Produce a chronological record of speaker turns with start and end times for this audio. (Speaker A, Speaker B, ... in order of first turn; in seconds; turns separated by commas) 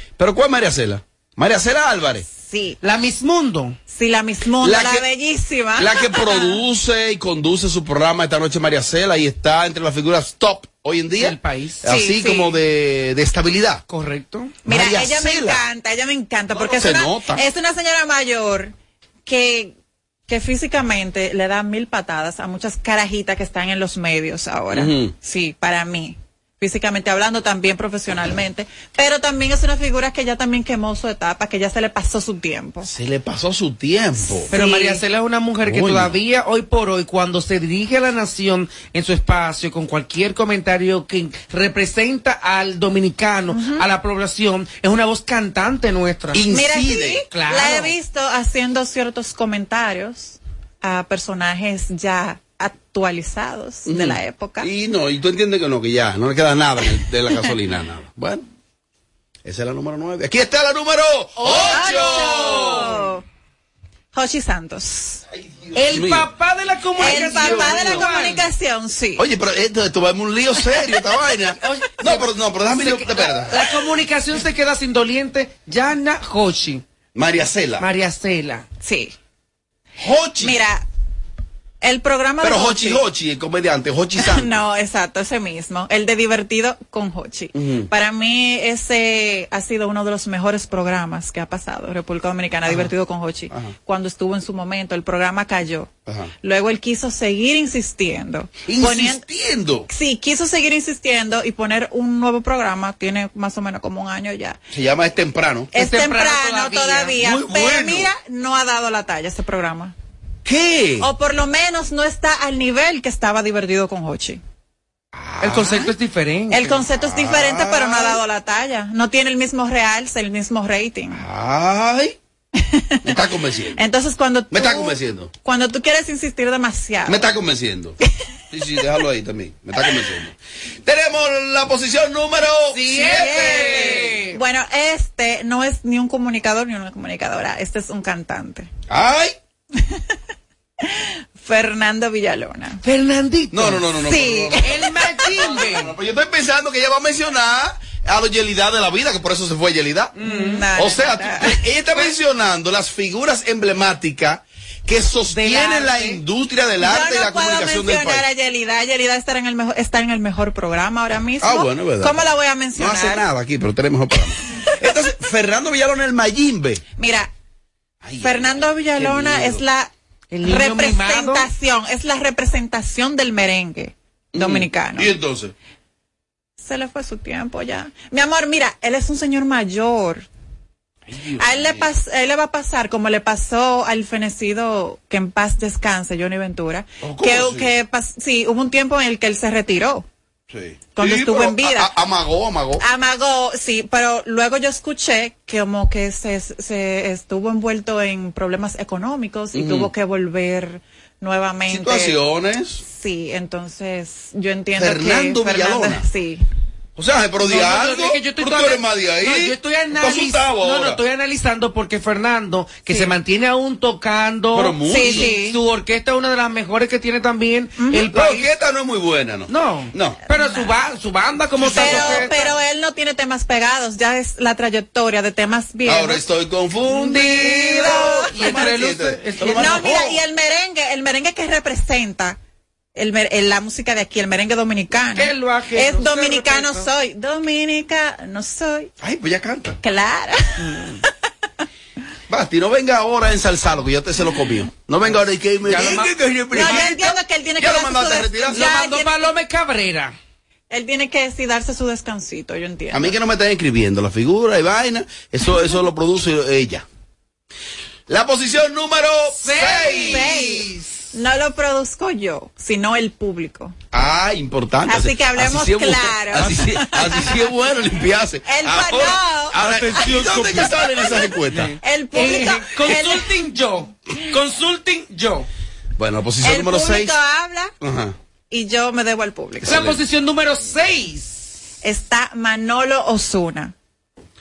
Speaker A: 0.2-2.3, Speaker B: 2.3-2.8, Speaker C: 2.8-3.8, Speaker B: 3.9-6.6, Speaker A: 4.6-5.1, Speaker A: 5.8-13.8, Speaker C: 11.2-11.9, Speaker B: 11.9-12.6, Speaker C: 13.9-14.6, Speaker B: 14.7-18.7, Speaker A: 14.7-15.6, Speaker A: 16.6-17.4, Speaker B: 19.2-19.8, Speaker B: 20.3-32.9, Speaker A: 24.7-25.1, Speaker A: 32.8-34.5, Speaker B: 34.4-35.0, Speaker C: 34.5-46.5, Speaker A: 35.6-36.1, Speaker B: 43.5-43.8, Speaker A: 46.3-47.2, Speaker B: 46.5-54.7, Speaker C: 47.3-47.9, Speaker A: 53.9-58.5, Speaker A: 59.5-63.0, Speaker B: 61.6-63.2, Speaker B: 64.1-65.2, Speaker A: 65.7-66.3, Speaker C: 65.8-68.5, Speaker A: 67.0-68.1, Speaker B: 67.0-69.3, Speaker A: 69.2-73.7, Speaker C: 71.6-76.8, Speaker A: 77.2-77.9, Speaker C: 77.8-78.7, Speaker B: 78.8-79.2, Speaker A: 80.0-80.6, Speaker B: 80.4-80.8, Speaker B: 81.8-83.0, Speaker A: 82.4-84.6, Speaker B: 84.2-95.9, Speaker A: 87.5-87.9, Speaker A: 96.1-96.3, Speaker B: 96.4-99.2, Speaker A: 98.7-99.9, Speaker B: 99.9-104.6, Speaker A: 104.7-105.7, Speaker C: 105.8-107.2, Speaker B: 105.8-110.0, Speaker A: 107.2-108.1, Speaker A: 110.5-111.1, Speaker B: 111.0-114.4, Speaker A: 115.1-115.9, Speaker C: 115.4-116.8, Speaker B: 116.5-121.2, Speaker A: 116.9-118.2, Speaker A: 121.1-122.2, Speaker B: 122.6-123.2, Speaker A: 123.0-123.8, Speaker B: 123.8-127.3, Speaker A: 124.5-125.3, Speaker A: 127.1-128.0, Speaker A: 128.5-134.1, Speaker C: 132.7-134.4, Speaker B: 133.2-138.7, Speaker A: 138.9-139.3, Speaker B: 140.8-142.8, Speaker C: 142.8-143.8, Speaker A: 143.5-150.2, Speaker B: 144.1-144.6, Speaker C: 144.6-145.9, Speaker C: 150.2-150.7, Speaker B: 150.3-151.6, Speaker A: 150.7-158.3, Speaker C: 155.3-156.2, Speaker B: 156.8-163.2, Speaker A: 161.4-166.8, Speaker B: 167.0-167.3, Speaker A: 168.0-169.6, Speaker B: 168.2-169.9, Speaker C: 170.3-171.5, Speaker B: 170.4-175.1, Speaker A: 174.3-175.5, Speaker B: 176.6-180.3, Speaker A: 181.1-181.9, Speaker B: 181.4-190.1, Speaker A: 187.0-187.7, Speaker A: 190.5-192.8, Speaker B: 191.0-191.9, Speaker B: 192.8-202.2, Speaker A: 199.5-199.9, Speaker A: 201.7-202.8, Speaker B: 202.8-206.4, Speaker A: 204.8-206.1, Speaker A: 207.0-211.0, Speaker C: 207.4-218.5, Speaker A: 214.5-215.4, Speaker B: 214.9-215.6, Speaker A: 218.1-220.2, Speaker C: 219.5-222.5, Speaker B: 220.3-220.7, Speaker B: 221.6-226.2, Speaker A: 221.8-222.3, Speaker A: 225.8-230.2, Speaker C: 226.9-230.0, Speaker B: 227.9-228.2, Speaker B: 229.6-232.4, Speaker B: 232.9-238.9, Speaker C: 235.1-236.9, Speaker A: 239.0-239.8, Speaker B: 239.8-240.6, Speaker C: 240.6-241.0, Speaker A: 242.3-248.7, Speaker C: 245.7-246.9, Speaker B: 246.5-249.3, Speaker C: 248.5-250.2, Speaker B: 250.7-253.2, Speaker A: 252.9-256.9, Speaker A: 258.1-260.6, Speaker C: 259.4-261.1, Speaker B: 260.1-260.5, Speaker B: 261.1-263.8, Speaker A: 263.9-271.8, Speaker B: 264.9-267.1, Speaker B: 268.5-269.6, Speaker C: 269.6-270.7, Speaker C: 271.5-275.5, Speaker B: 271.8-273.3, Speaker A: 276.0-277.2, Speaker B: 276.4-277.7, Speaker A: 277.8-278.1, Speaker B: 278.5-279.7, Speaker A: 279.6-280.0, Speaker C: 279.6-281.6, Speaker B: 281.8-283.7